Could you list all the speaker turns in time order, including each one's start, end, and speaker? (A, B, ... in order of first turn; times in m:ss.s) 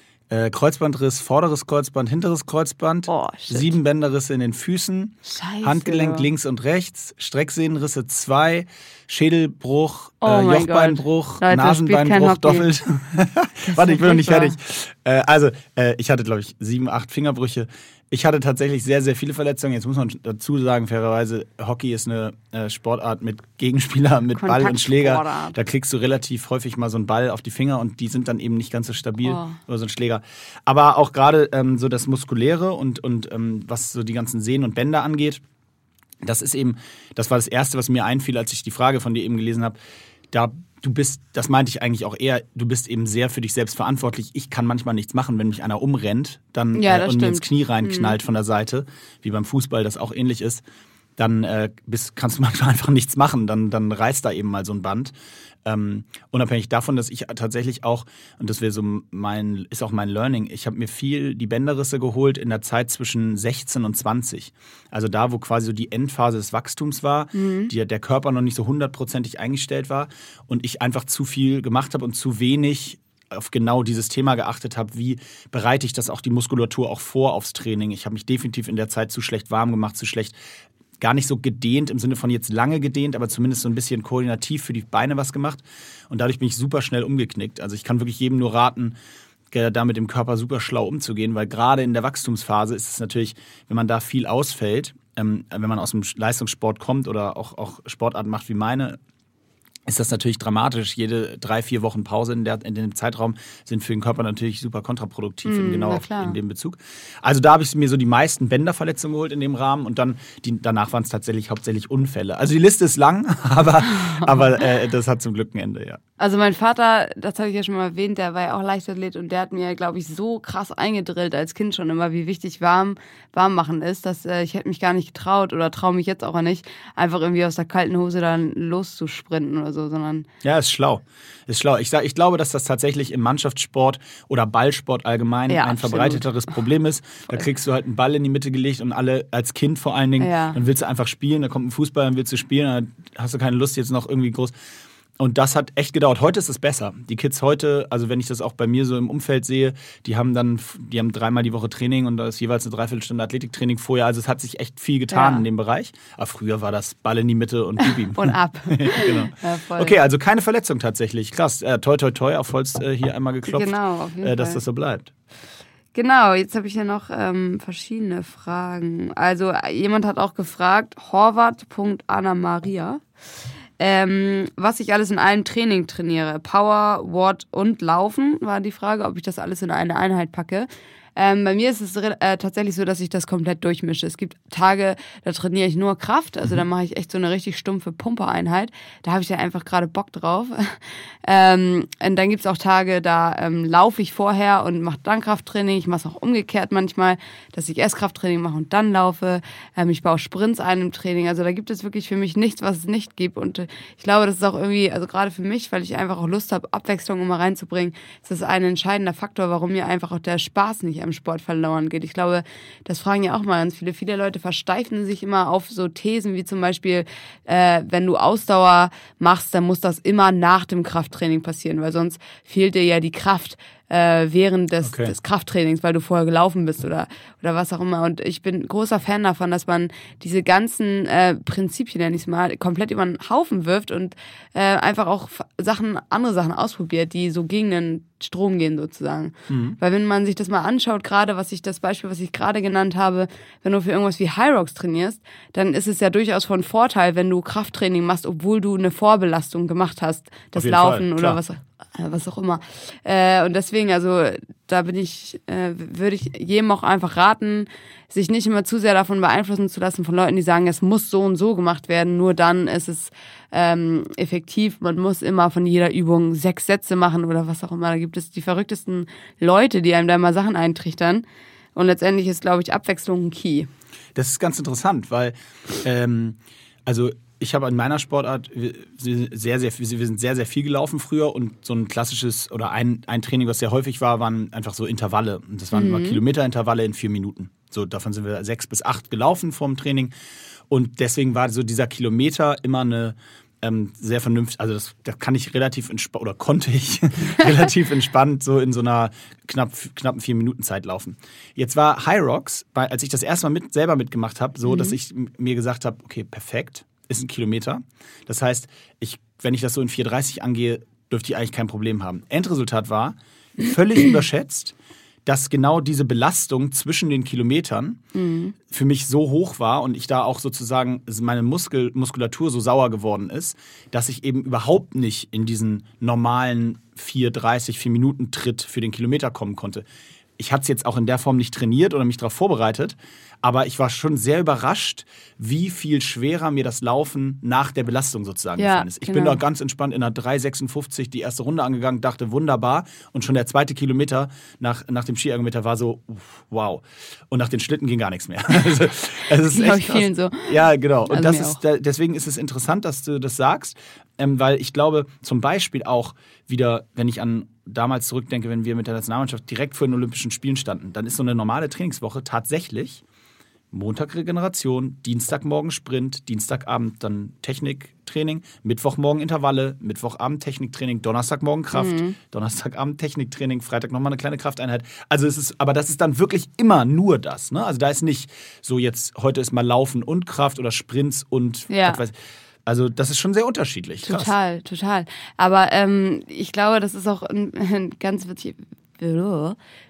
0:00.3-0:35.4 A
0:03.1-0:03.7 B
0:05.2-0:06.3 B
0:10.2-0:12.7 B
0:13.6-0:14.6 B
0:24.3-0:25.6 B
0:29.2-0:29.6 B
0:36.2-0:39.8 A
0:40.3-0:50.6 A
0:46.8-0:48.2 B
0:51.2-0:55.1 A
0:55.6-1:20.4 A
1:07.3-1:07.7 B
1:21.0-1:29.0 A
1:29.5-1:39.0 A
1:39.9-1:56.0 A
1:45.5-1:46.4 B
1:54.0-1:54.3 B
1:56.2-2:10.3 B
2:10.4-2:24.5 A
2:15.5-2:16.2 B
2:20.2-2:20.6 B
2:25.2-2:45.1 A
2:35.1-2:35.4 B
2:37.8-2:40.0 B
2:43.5-2:44.6 B
2:45.9-2:53.0 B
2:53.8-4:33.7 B
3:44.8-3:45.1 A
3:59.5-3:59.8 A
4:10.6-4:11.4 A
4:34.2-4:50.1 A
4:45.7-4:46.2 B
4:50.7-5:14.8 A
5:04.6-5:05.0 B
5:15.3-5:18.0 A
5:18.1-5:18.5 B
5:18.7-5:29.8 A
5:30.4-6:03.0 A
5:38.6-5:39.4 B
5:49.5-5:50.6 B
5:51.1-5:51.6 B
6:03.7-6:22.2 A
6:11.7-6:12.2 B
6:21.7-6:22.0 B
6:22.7-6:24.3 A
6:24.0-6:29.6 B